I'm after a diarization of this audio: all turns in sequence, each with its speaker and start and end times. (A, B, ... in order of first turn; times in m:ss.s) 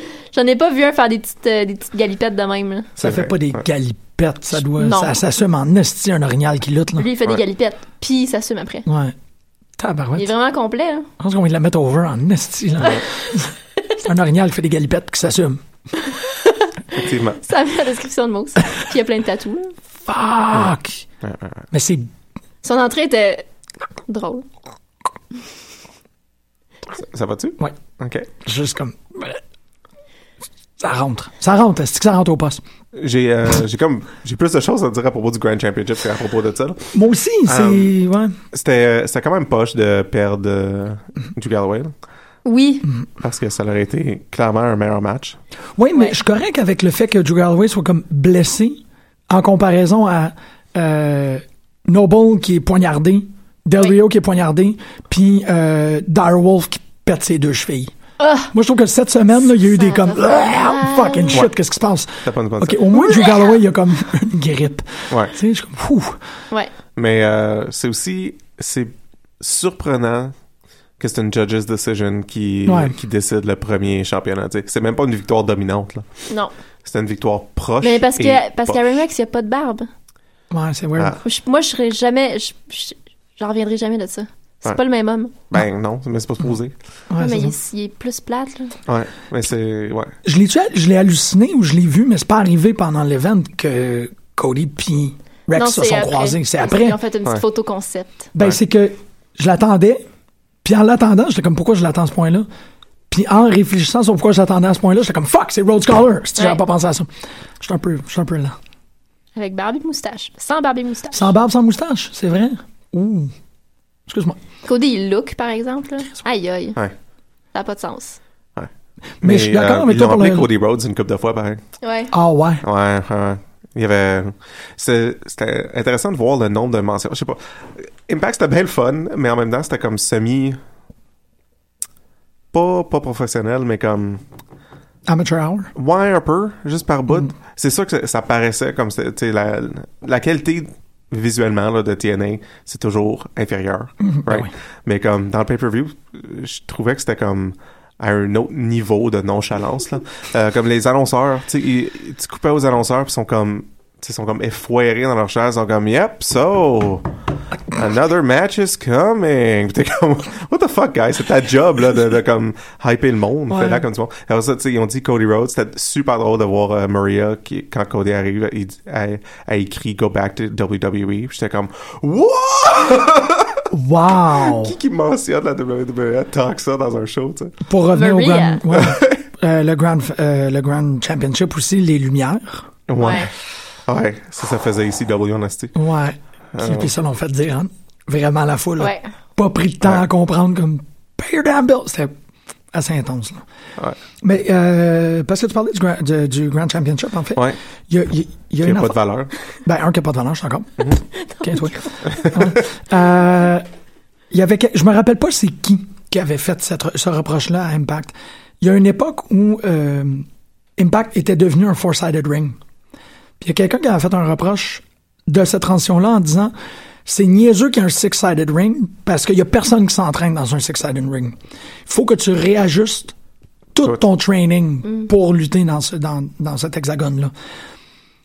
0:00.3-0:02.9 A
0:03.0-0:07.1 B
0:03.0-0:03.5 C
0:04.8-0:05.2 A
0:07.0-0:08.9 A
0:08.9-0:09.2 B
0:09.8-0:10.3 B
0:10.2-0:11.1 A
0:11.2-0:15.6 B
0:16.1-0:19.8 A
0:17.0-0:17.4 C
0:20.1-0:21.0 B
0:21.2-0:21.7 C
0:21.7-0:22.1 B
0:22.6-0:23.5 A
0:24.1-0:24.5 A
0:26.9-0:28.3 C
0:28.4-0:29.4 B
0:30.8-0:32.6 B
0:33.0-0:37.0 C
0:36.9-0:38.4 B
0:37.5-0:37.9 C
0:38.5-0:41.9 C
0:42.4-0:42.9 A
0:43.2-0:45.4 C
0:45.8-0:57.9 B
0:58.2-0:58.5 A
0:58.5-1:06.2 B
0:59.5-1:01.4 A
1:02.2-1:03.0 C
1:05.1-1:05.4 C
1:07.0-1:10.4 C
1:11.0-1:16.2 C
1:12.7-1:13.0 B
1:16.8-1:18.8 C
1:17.8-1:19.9 A
1:20.5-1:21.2 B
1:21.2-1:25.4 A
1:25.5-1:26.7 C
1:27.1-1:27.6 B
1:27.2-1:28.8 A
1:28.9-1:30.2 C
1:30.2-1:37.0 B
1:35.5-1:38.3 A
1:38.4-1:40.0 B
1:40.6-1:42.5 B
1:43.1-1:48.6 B
1:46.4-1:46.6 A
1:49.4-1:51.3 A
1:51.1-1:53.3 B
1:54.1-1:54.4 B
1:54.6-1:56.8 A
1:57.5-1:58.2 A
1:59.2-2:00.5 B
1:59.2-2:01.6 C
2:01.8-2:02.1 A
2:02.1-2:02.6 B
2:02.6-2:10.6 C
2:12.5-2:14.2 C
2:15.1-2:15.7 B
2:15.8-2:37.1 C
2:24.0-2:24.5 B
2:37.7-2:53.7 C
2:43.5-2:43.8 B
2:53.7-2:54.8 B
2:54.4-2:57.6 C
2:57.7-3:02.6 B
2:57.9-2:58.7 A
2:58.7-2:59.2 C
3:02.9-3:03.3 C
3:03.0-3:03.3 A
3:03.9-3:05.8 C
3:05.8-3:12.1 B
3:06.5-3:06.9 C
3:08.8-3:09.1 A
3:12.7-3:13.4 B
3:14.2-3:19.0 B
3:18.6-3:19.3 C
3:19.6-3:23.7 B
3:21.2-3:22.2 A
3:22.2-3:22.5 C
3:24.3-3:32.6 B
3:33.4-3:36.5 B
3:37.1-3:43.1 B
3:43.7-3:47.3 B